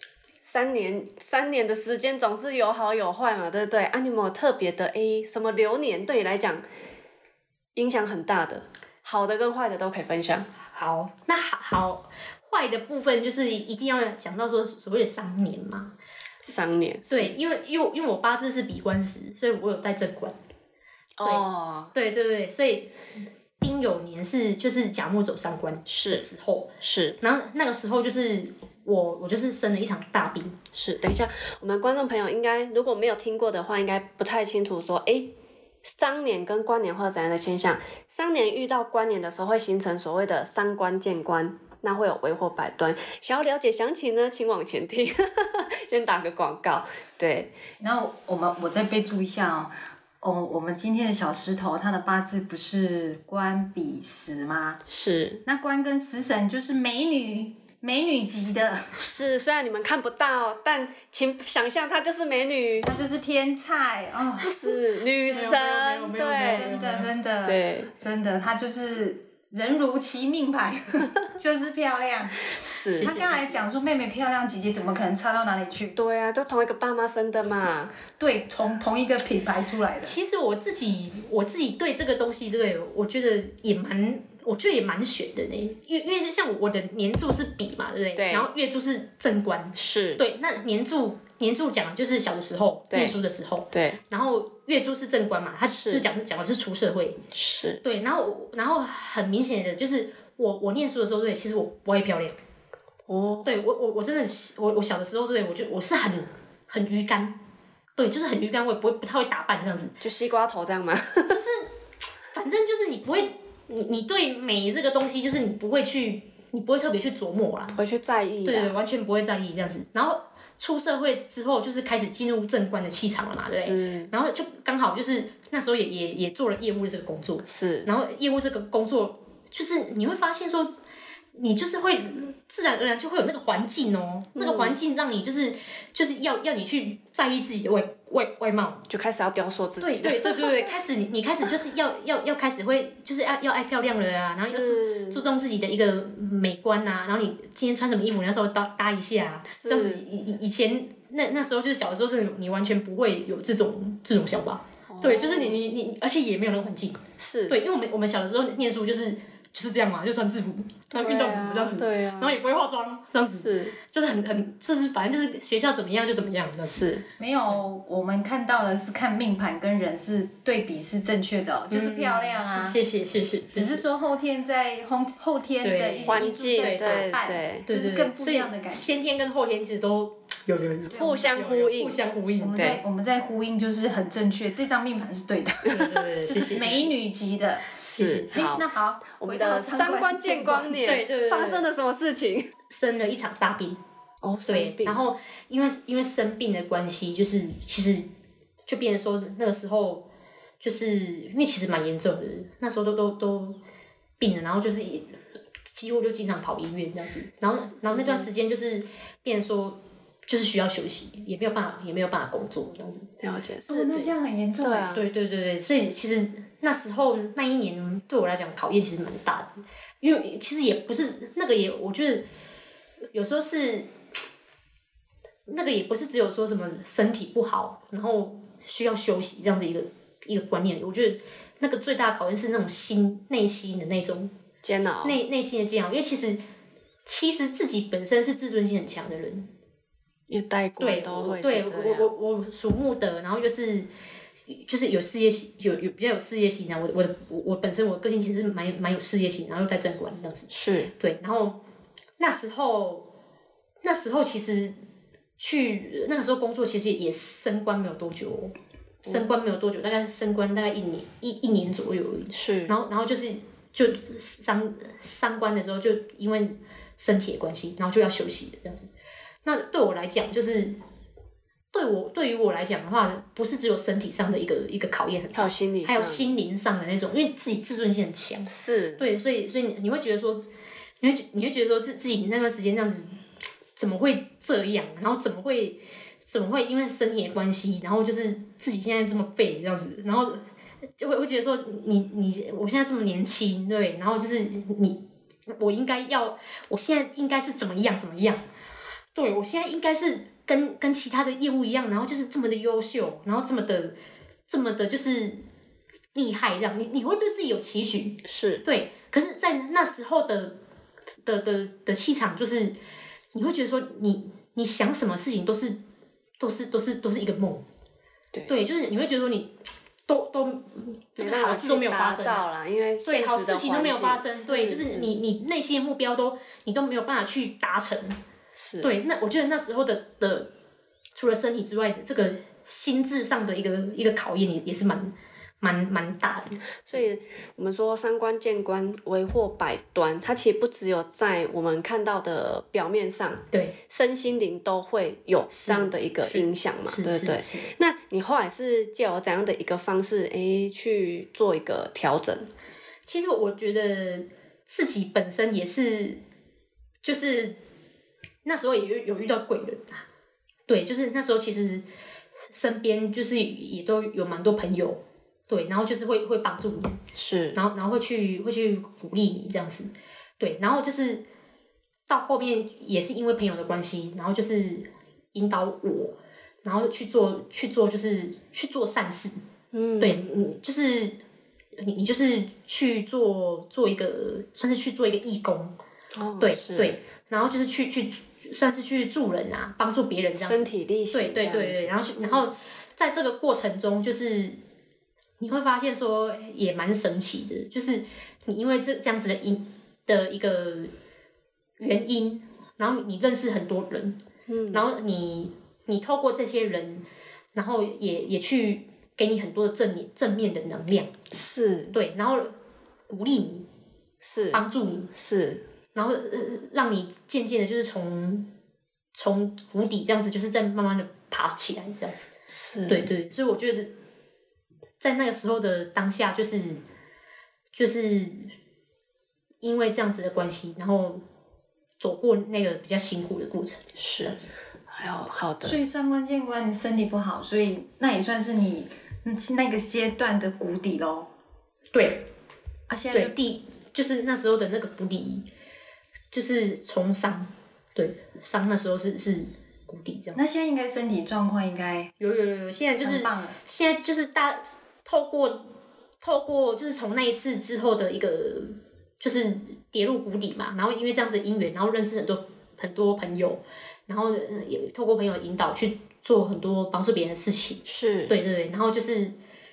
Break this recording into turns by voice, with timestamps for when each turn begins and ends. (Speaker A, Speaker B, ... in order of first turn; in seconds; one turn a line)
Speaker A: 0.4-6.6
Speaker A: 7.7-10.5
Speaker B: 10.7-15.9
Speaker A: 16.4-17.4
Speaker B: 17.1-20.3
Speaker A: 21.2-21.9
Speaker B: 21.2-22.9
Speaker B: 23.6-30.6
Speaker A: 25.9-26.2
Speaker A: 26.8-27.2
Speaker A: 30.7-47.5
Speaker C: 47.8-54.8
Speaker A: 54.9-55.4
Speaker C: 55.5-59.0
Speaker A: 59.0-63.0
Speaker C: 62.8-65.6
Speaker A: 64.4-67.9
Speaker B: 65.2-67.1
Speaker C: 66.3-76.0
Speaker A: 72.5-73.6
Speaker B: 72.9-73.4
Speaker A: 75.9-77.9
Speaker C: 78.2-80.2
Speaker B: 80.0-97.2
Speaker A: 88.1-88.5
Speaker A: 89.8-90.2
Speaker A: 92.9-93.2
Speaker A: 93.7-94.0
Speaker A: 95.7-96.1
Speaker A: 97.3-97.8
Speaker B: 97.8-102.3
Speaker A: 103.1-103.5
Speaker B: 103.4-107.4
Speaker B: 108.0-109.9
Speaker A: 110.0-111.4
Speaker B: 111.3-111.7
Speaker B: 112.3-117.8
Speaker A: 117.7-118.8
Speaker B: 118.4-130.7
Speaker A: 123.5-124.1
Speaker A: 127.5-127.9
Speaker B: 131.3-138.8
Speaker A: 134.3-134.8
Speaker A: 138.9-140.7
Speaker B: 139.8-166.9
Speaker A: 144.4-145.2
Speaker A: 149.5-150.0
Speaker A: 154.9-155.6
Speaker A: 157.2-157.6
Speaker A: 160.9-162.4
Speaker A: 163.3-163.8
Speaker A: 166.7-167.0
Speaker C: 167.2-172.8
Speaker B: 171.7-173.8
Speaker C: 173.5-178.8
Speaker B: 175.6-182.8
Speaker A: 176.0-177.7
Speaker A: 180.9-182.0
Speaker C: 180.9-181.2
Speaker C: 182.4-187.7
Speaker A: 182.6-182.8
Speaker B: 185.7-186.9
Speaker A: 187.8-188.7
Speaker B: 187.9-188.5
Speaker C: 188.3-190.9
Speaker A: 189.2-192.5
Speaker B: 190.8-191.7
Speaker B: 192.7-193.8
Speaker A: 194.2-195.0
Speaker B: 194.4-198.1
Speaker B: 198.7-200.1
Speaker B: 200.6-203.6
Speaker B: 204.2-205.2
Speaker B: 205.7-213.1
Speaker A: 207.8-208.3
Speaker A: 213.2-214.1
Speaker C: 213.7-214.9
Speaker A: 214.6-215.1
Speaker B: 214.9-222.2
Speaker B: 223.1-223.9
Speaker B: 225.5-234.3
Speaker A: 234.6-235.2
Speaker B: 235.0-236.4
Speaker B: 237.0-239.5
Speaker A: 240.3-242.1
Speaker B: 240.8-243.9
Speaker B: 244.5-251.6
Speaker A: 250.5-250.9
Speaker B: 252.2-253.1
Speaker B: 253.8-254.7
Speaker B: 255.4-258.5
Speaker B: 259.0-268.9
Speaker A: 262.3-262.7
Speaker B: 269.4-270.8
Speaker B: 271.7-280.5
Speaker A: 275.3-276.3
Speaker A: 278.5-279.0
Speaker B: 281.0-283.2
Speaker B: 283.8-290.4
Speaker B: 291.0-298.4
Speaker B: 299.1-303.9
Speaker B: 304.5-305.4
Speaker B: 306.1-310.6
Speaker A: 308.2-308.6
Speaker B: 311.2-312.8
Speaker B: 313.3-315.8
Speaker B: 316.4-317.6
Speaker B: 318.5-322.4
Speaker A: 321.2-325.1
Speaker B: 323.0-328.2
Speaker A: 328.5-328.9
Speaker B: 328.8-330.5
Speaker B: 331.1-337.0
Speaker A: 336.9-352.5
Speaker B: 345.5-347.7
Speaker B: 353.1-356.2
Speaker B: 357.0-357.6
Speaker B: 358.4-360.0
Speaker B: 360.7-361.8
Speaker B: 362.5-367.0
Speaker A: 367.1-367.6
Speaker B: 367.5-371.2
Speaker B: 372.1-379.4
Speaker A: 379.7-380.2
Speaker B: 380.0-381.2
Speaker B: 381.8-385.7
Speaker A: 386.1-387.0
Speaker B: 386.4-394.6
Speaker A: 390.4-392.4
Speaker B: 395.4-400.9
Speaker B: 401.8-404.2
Speaker A: 404.5-404.9
Speaker B: 404.7-411.1
Speaker A: 411.3-411.9
Speaker B: 411.9-412.6
Speaker B: 413.1-413.7
Speaker A: 414.2-415.6
Speaker B: 414.5-415.1
Speaker B: 415.9-418.5
Speaker B: 419.1-422.3
Speaker A: 422.5-423.1
Speaker B: 422.9-423.9
Speaker B: 425.0-426.8
Speaker B: 427.7-428.5
Speaker B: 429.6-431.2
Speaker B: 432.0-434.5
Speaker A: 434.0-434.4
Speaker A: 434.9-435.8
Speaker C: 435.6-441.3
Speaker B: 441.9-442.3
Speaker C: 442.9-443.3
Speaker B: 443.1-445.5
Speaker B: 446.3-450.4
Speaker C: 450.3-452.1
Speaker B: 452.2-469.4
Speaker C: 453.0-453.6
Speaker A: 467.9-468.4